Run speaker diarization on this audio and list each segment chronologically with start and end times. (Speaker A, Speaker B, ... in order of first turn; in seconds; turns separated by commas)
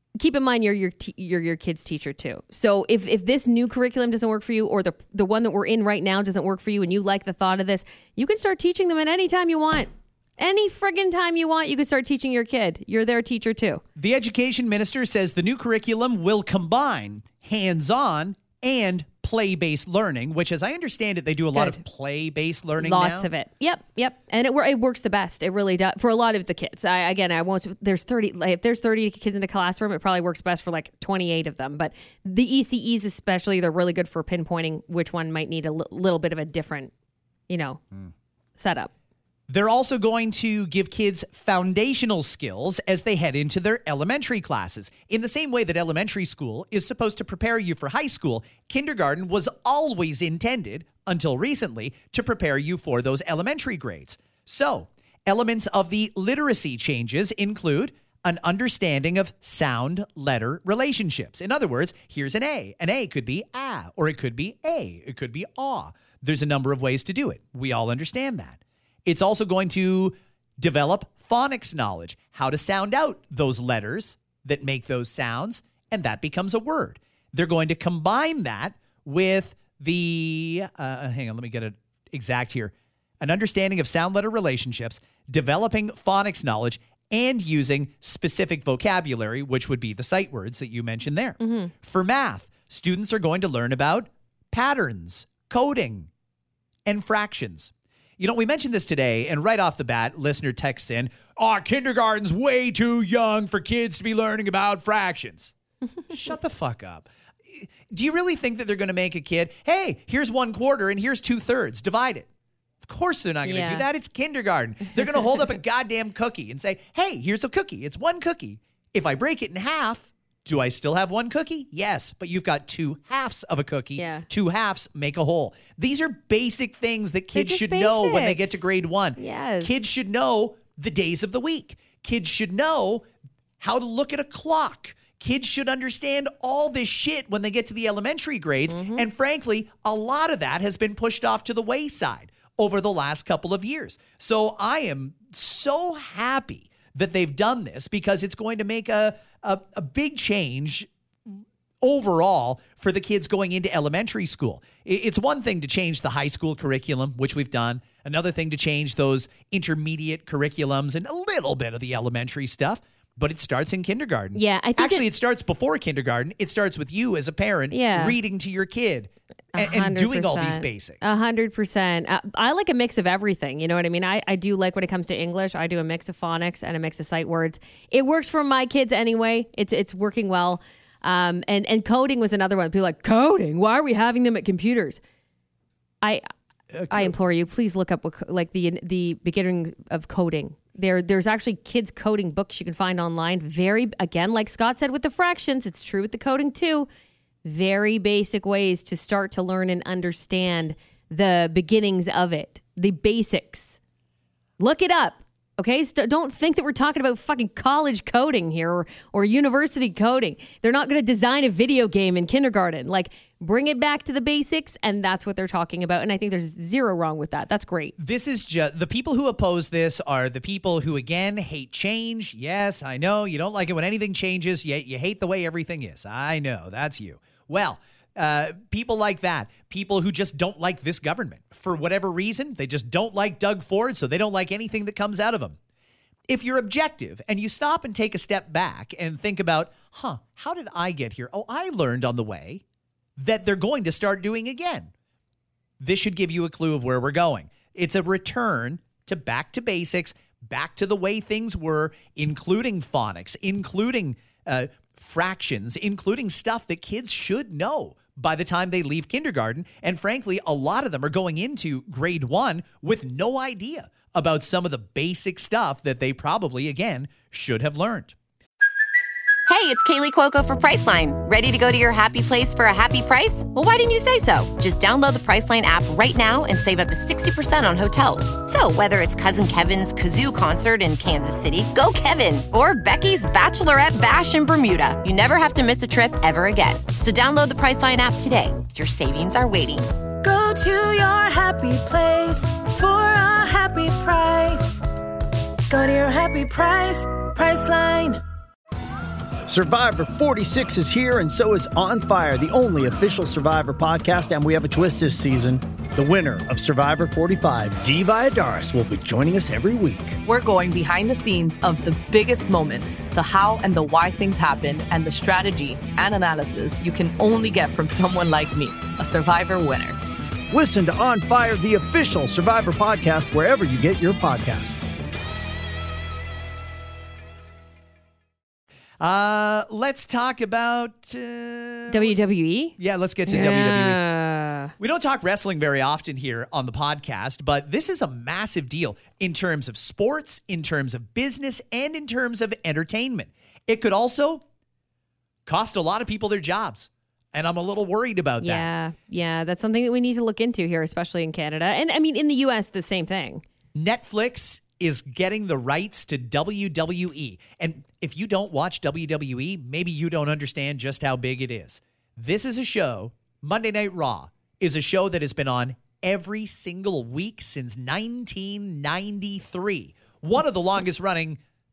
Speaker A: 0.2-13.8, Speaker B: 14.0-23.3, Speaker A: 21.5-21.8, Speaker A: 22.8-36.9, Speaker A: 37.5-37.8, Speaker A: 38.6-38.9, Speaker B: 39.5-96.1, Speaker A: 91.4-91.7, Speaker B: 96.9-105.5, Speaker B: 106.1-112.3, Speaker B: 112.8-133.1, Speaker A: 113.4-113.9, Speaker A: 124.0-124.3, Speaker A: 127.3-128.6, Speaker A: 129.2-129.8, Speaker B: 133.6-171.2, Speaker A: 138.7-139.1, Speaker A: 164.3-165.1, Speaker A: 167.7-168.2, Speaker A: 169.5-185.0, Speaker B: 186.7-187.2, Speaker A: 186.9-196.9, Speaker A: 197.4-203.8, Speaker A: 204.6-217.9, Speaker B: 218.0-235.6, Speaker B: 236.3-242.6, Speaker B: 243.2-244.9, Speaker B: 245.8-268.1, Speaker C: 269.5-289.9, Speaker D: 290.2-294.8, Speaker D: 295.7-298.2, Speaker E: 299.5-310.2, Speaker F: 310.2-320.0, Speaker E: 320.5-324.8, Speaker B: 329.0-332.2, Speaker A: 331.9-334.7, Speaker B: 332.8-334.0, Speaker B: 334.8-344.4, Speaker B: 345.5-348.7, Speaker A: 348.4-353.4, Speaker B: 353.8-371.4